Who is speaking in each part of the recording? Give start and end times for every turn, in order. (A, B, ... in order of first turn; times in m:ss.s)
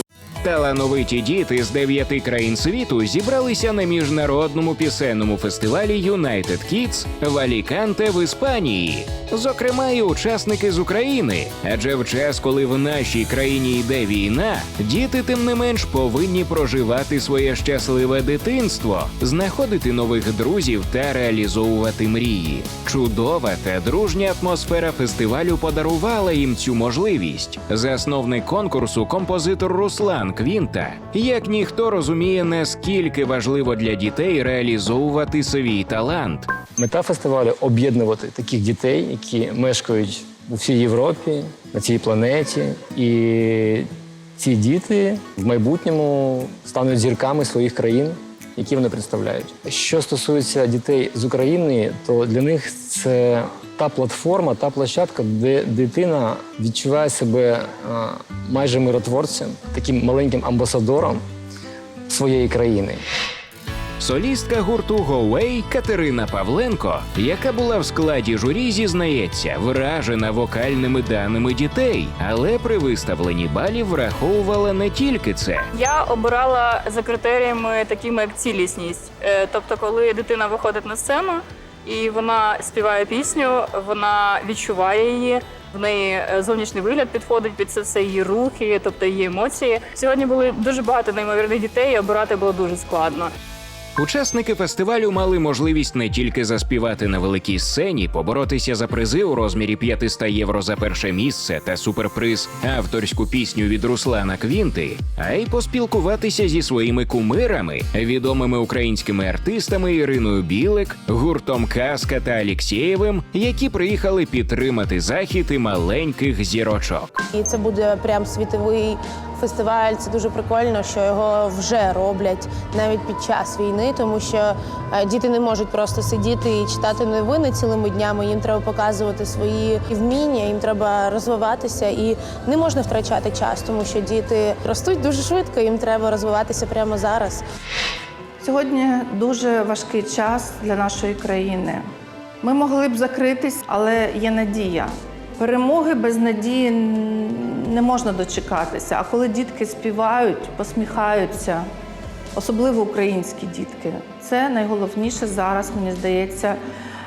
0:00.4-0:36.5 A
0:36.8-0:43.9 B
0:44.4-1:01.2 B
1:02.1-1:03.0 B
1:04.0-1:15.7 A
1:15.7-1:33.3 C
1:34.0-1:57.1 A
1:57.3-2:17.4 D
2:18.4-2:21.8 E
2:22.4-2:31.7 E
2:32.3-2:36.6 E